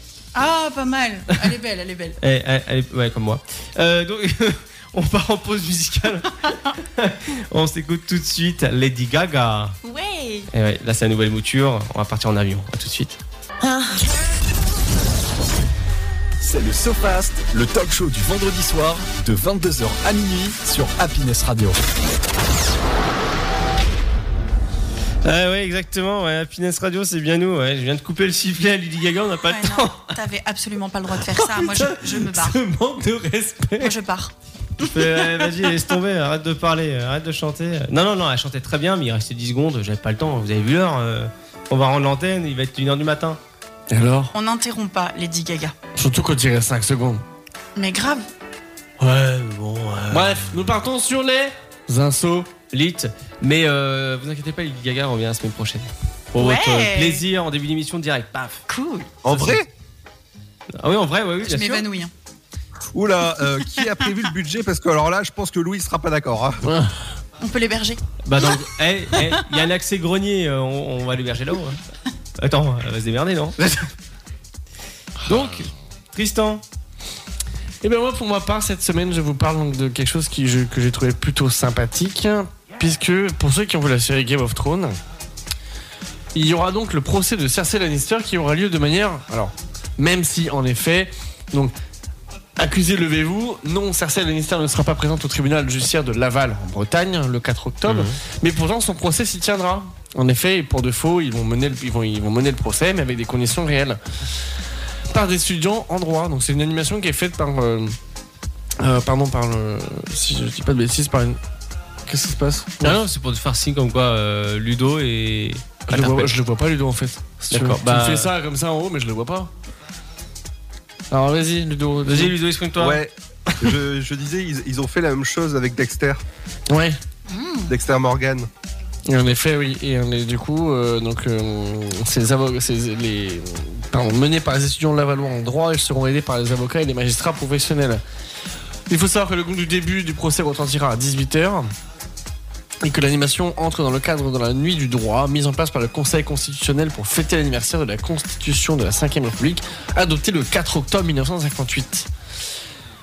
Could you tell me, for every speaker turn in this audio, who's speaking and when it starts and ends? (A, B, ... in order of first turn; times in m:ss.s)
0:00.3-0:02.2 A
0:02.2-0:09.8 B
0:09.8-0:10.5 A
0:10.5-0:13.2 B
0:13.6-0:13.9 A
0:16.4-0:21.8 C
0:25.2-0:30.1 B
0:29.4-0:32.6 A
0:31.3-0:33.9 D
0:33.8-0:34.9 A
0:34.8-0:43.4 B
0:43.9-0:44.3 D
0:44.3-0:45.7 A
0:45.9-0:47.2 D
0:47.8-0:48.3 A
0:49.0-0:50.4 B
0:50.1-0:52.5 D
0:52.7-0:58.6 B
0:56.3-0:57.2 A
0:58.7-0:59.3 A
0:59.2-0:59.7 E
1:00.8-1:01.8 B
1:01.4-1:02.1 A
1:02.9-1:06.6 E
1:06.6-1:06.9 D
1:07.4-1:08.5 A
1:08.2-1:11.8 B
1:12.4-1:13.9 B
1:15.2-1:15.5 D
1:15.2-1:16.6 B
1:17.8-1:25.0 D
1:26.3-1:31.7 D
1:32.6-1:44.0 D
1:37.8-1:38.2 B
1:45.1-1:48.0 D
1:48.8-1:51.4 D
1:52.0-1:53.0 D
1:52.8-1:56.3 B
1:55.9-1:59.5 D
1:57.5-1:58.3 B
2:01.1-2:02.3 D
2:02.0-2:03.7 B
2:02.8-2:06.2 E
2:06.7-2:07.0 D
2:07.3-2:07.8 A
2:07.7-2:08.5 E
2:09.0-2:18.0 D
2:18.9-2:21.7 D
2:22.8-2:32.1 D